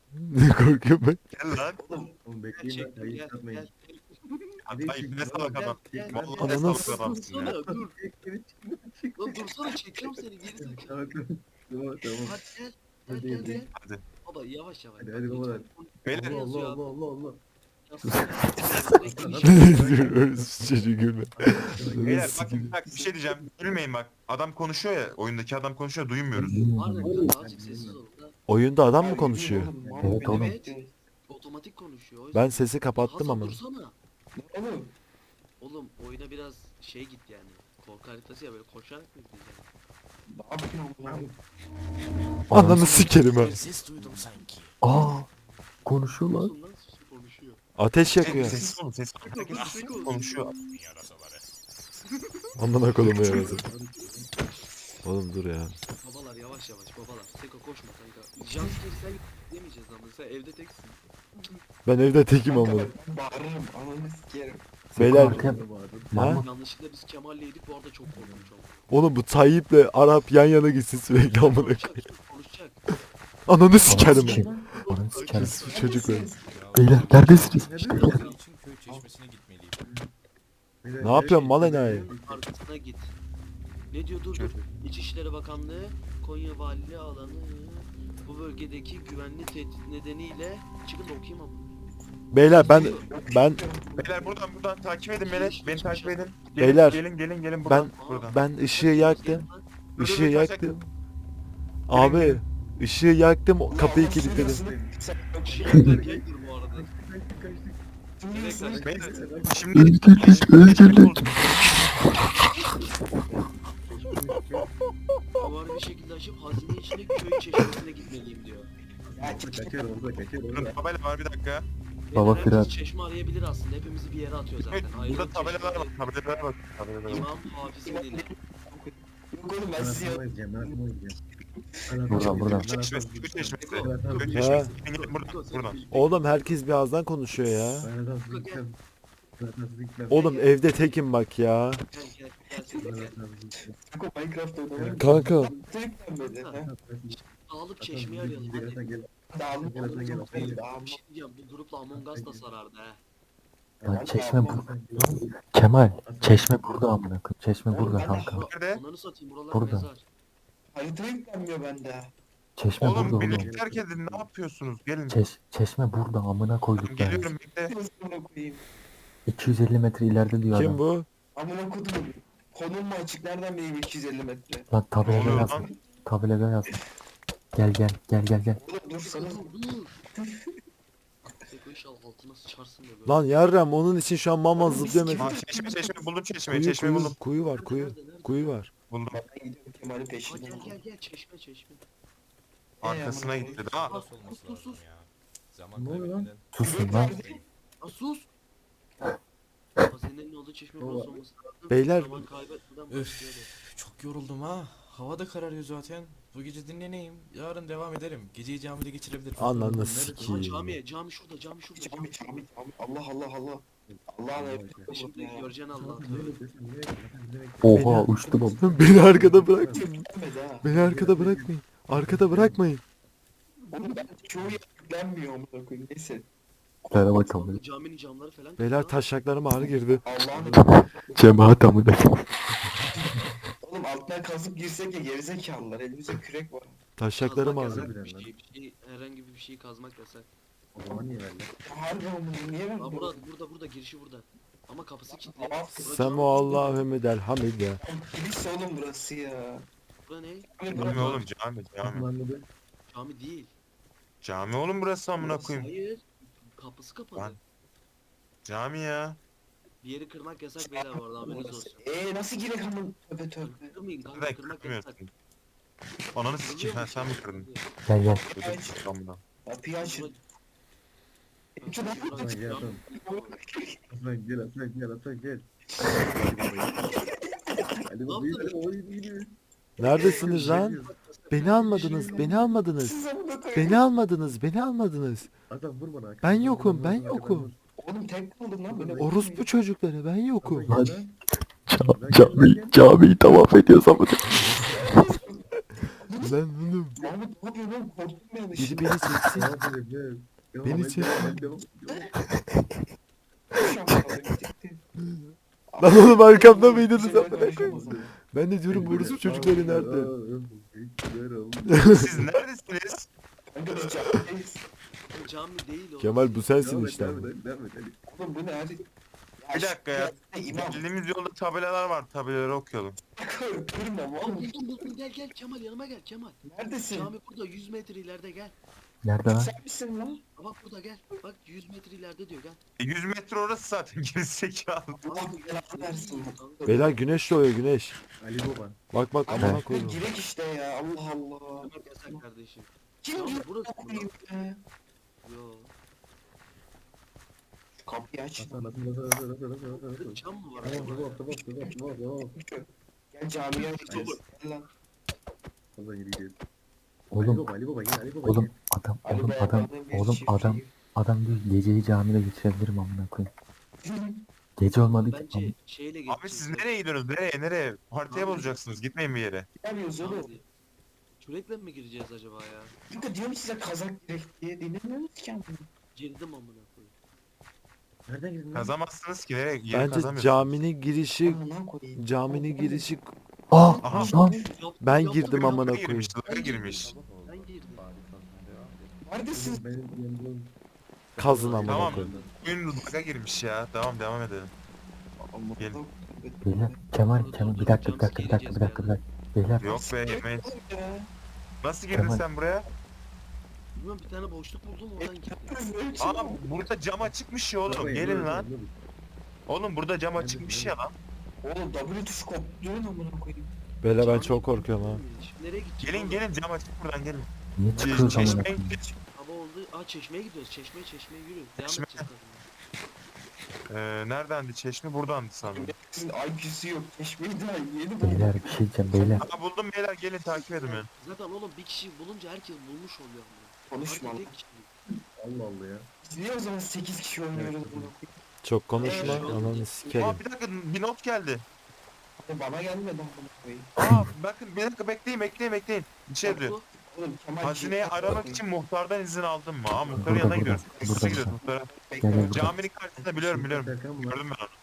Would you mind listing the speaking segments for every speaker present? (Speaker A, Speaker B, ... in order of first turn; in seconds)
Speaker A: 0.1-1.2, 6.4-6.9, 19.4-22.7, 28.5-29.7, 32.3-33.6, 42.5-43.5, 47.8-48.6, 52.5-53.6, 55.0-55.8, 61.9-62.9, 64.9-65.4, 66.2-66.4, 68.9-71.9, 73.5-74.5, 75.3-76.3, 81.0-82.1, 92.3-93.6, 96.6-97.0, 97.6-100.9, 101.9-104.6, 134.3-134.7, 135.9-137.9, 140.1-141.8, 145.0-145.5, 170.5-171.1, 183.1-185.3, 186.5-188.7, 201.7-202.2, 209.4-210.6, 217.7-218.1, 218.6-219.8, 220.6-222.8, 228.6-230.0, 237.0-237.9, 245.8-247.8, 279.8-280.8, 281.3-282.9, 283.5-285.3, 286.2-287.5, 289.0-290.7, 296.2-297.0, 298.5-299.6, 300.6-301.3, 305.0-307.8, 308.3-310.1, 311.7-312.1, 316.0-317.3, 336.6-338.0, 338.9-340.0, 379.7-381.4, 382.0-383.1, 384.8-386.1, 391.2-392.1, 413.8-415.0, 438.4-440.2
Speaker B: 1.3-1.8, 4.7-7.5, 13.7-14.0, 16.1-16.4, 22.1-26.6, 48.2-50.5, 94.0-98.4, 100.0-100.8, 101.9-102.4, 108.8-111.6, 120.5-121.6, 124.7-127.2, 132.7-135.8, 158.5-158.8, 162.8-165.2, 166.8-167.7, 175.0-175.6, 185.2-187.2, 188.9-189.2, 192.8-194.0, 250.8-252.1, 254.2-255.7, 258.4-259.2, 264.1-265.1, 266.1-267.5, 268.3-269.2, 311.9-313.1, 319.5-323.0, 332.8-335.0, 366.1-369.5, 378.5-380.5, 383.8-384.2, 385.3-386.9, 391.6-394.5, 399.6-400.5, 401.6-402.7, 406.0-408.5, 409.5-410.9, 415.8-418.8, 421.6-422.1, 423.7-425.7, 429.2-430.9, 440.0-441.4, 443.8-446.5, 447.4-451.7, 452.2-454.5
Speaker C: 1.8-2.1, 13.1-13.6, 29.0-30.9, 34.4-34.9, 40.3-41.3, 48.2-48.8, 49.6-49.9, 58.5-58.8, 62.5-64.6, 73.8-74.7, 75.6-76.5, 92.7-94.4, 103.7-106.0, 108.2-108.9, 119.2-120.1, 127.1-130.8, 131.6-132.4, 143.9-146.7, 149.3-151.0, 153.9-154.7, 157.7-158.5, 160.7-162.1, 167.7-168.6, 171.3-174.7, 175.2-175.7, 178.6-179.5, 180.1-180.4, 184.6-186.1, 189.1-190.8, 192.8-193.6, 196.6-197.4, 211.8-215.4, 219.8-220.7, 223.7-226.3, 230.0-230.7, 233.6-236.8, 241.6-243.2, 245.1-246.6, 247.8-249.7, 250.5-251.2, 260.6-263.7, 268.0-268.8, 269.4-270.1, 271.6-273.8, 275.8-277.8, 282.1-283.8, 287.8-289.4, 294.7-295.5, 296.0-296.4, 296.9-299.2, 303.5-304.8, 305.7-308.1, 313.5-314.6, 318.1-318.8, 319.4-320.8, 323.2-324.6, 326.4-327.1, 329.2-330.2, 335.0-336.9, 339.3-342.2, 343.0-344.6, 347.8-348.7, 352.3-354.7, 359.0-360.7, 363.8-364.2, 369.6-370.3, 372.9-375.6, 381.2-382.9, 383.5-384.5, 389.0-389.6, 395.2-396.8, 399.6-401.1, 405.0-406.7, 411.4-413.5, 418.1-418.9, 425.4-429.3, 430.3-430.9, 433.7-434.3, 436.0-438.2, 438.8-439.4, 442.2-443.7, 446.8-448.4, 450.7-452.6
Speaker D: 2.2-3.7, 4.7-9.7, 10.6-12.4, 13.1-13.6, 15.0-17.4, 18.9-20.8, 21.4-22.7, 27.0-28.0, 29.8-30.3, 41.0-41.4, 53.2-54.3, 65.0-66.3, 68.1-68.5, 77.5-78.2, 79.8-80.1, 80.8-82.4, 104.2-107.8, 108.7-110.6, 113.8-114.7, 119.0-120.8, 129.7-131.2, 131.9-134.7, 137.8-138.8, 139.4-140.3, 142.8-143.8, 144.7-145.6, 146.6-150.7, 151.9-152.4, 153.8-155.3, 155.9-156.9, 162.8-164.3, 195.7-196.3, 200.8-201.2, 209.6-210.4, 213.9-214.9, 215.7-219.9, 220.6-222.6, 230.2-231.1, 237.6-238.3, 240.7-241.5, 250.7-251.2, 251.8-252.5, 272.1-272.8, 273.9-276.8, 277.9-279.3, 280.1-280.9, 281.6-282.2, 285.5-287.6, 288.7-289.1, 290.4-291.1, 291.8-292.8, 299.3-302.1, 307.5-308.1, 308.7-312.2, 316.6-318.0, 338.2-338.8, 348.4-352.4, 355.8-356.4, 357.1-358.5, 378.1-378.8, 386.7-390.5, 391.1-392.4, 407.6-408.8, 410.1-410.8, 435.2-435.9, 437.3-437.9, 449.9-450.4, 453.2-454.2
Speaker E: 2.6-4.6, 5.5-8.0, 9.2-11.0, 12.2-13.7, 14.2-17.0, 17.9-20.1, 26.7-28.3, 30.2-30.7, 31.3-34.0, 35.6-39.7, 46.2-47.6, 49.2-50.4, 52.0-52.5, 56.0-61.5, 66.2-68.8, 71.2-72.8, 73.8-76.0, 77.9-78.3, 81.8-83.1, 83.9-91.7, 92.5-93.1, 95.2-96.4, 97.9-99.6, 105.4-106.9, 108.3-108.9, 115.4-118.7, 122.1-126.0, 127.0-128.3, 133.6-136.5, 138.3-138.6, 140.1-141.0, 141.9-143.2, 146.2-148.8, 149.7-153.0, 158.0-160.0, 179.0-180.0, 181.5-183.2, 187.4-188.6, 190.3-191.8, 193.8-194.8, 197.8-198.3, 199.9-203.5, 210.2-212.4, 214.8-216.4, 227.1-229.1, 237.2-240.3, 242.8-246.8, 250.0-250.5, 252.9-253.5, 255.2-257.4, 259.8-261.9, 263.4-265.0, 266.3-267.7, 269.8-270.2, 271.6-273.4, 278.1-278.6, 279.8-282.4, 308.9-309.1, 315.1-316.5, 324.2-328.6, 330.4-332.6, 335.0-336.9, 341.6-344.1, 345.2-345.7, 349.7-351.2, 353.5-354.2, 364.8-366.7, 368.1-368.5, 370.0-370.4, 371.2-372.7, 375.9-376.9, 384.0-387.9, 391.2-392.4, 397.1-399.0, 403.8-405.6, 414.0-416.2, 418.0-418.4, 419.1-422.4, 431.0-434.7, 438.8-440.1, 446.2-446.7
Speaker F: 18.1-19.0, 26.3-27.3, 30.0-30.5, 42.5-43.1, 44.8-45.2, 45.9-46.5, 65.0-65.6, 66.1-66.4, 73.8-75.7, 76.7-78.1, 109.7-111.9, 122.1-122.7, 132.1-132.7, 153.8-158.4, 159.5-159.9, 162.6-163.5, 165.1-167.3, 169.3-170.8, 174.7-176.7, 177.5-178.6, 196.5-197.1, 217.6-218.6, 226.9-227.6, 230.6-232.2, 267.9-268.2, 290.7-290.9, 291.7-294.9, 329.0-329.5, 339.4-339.6, 357.1-357.4, 358.2-363.3, 364.6-365.5, 383.5-384.4, 396.4-399.8, 401.9-402.2, 417.6-418.8, 428.0-429.2, 450.0-451.4, 452.0-452.5
Speaker G: 43.1-44.8, 49.5-51.5, 76.5-79.8, 193.3-197.5, 202.9-209.8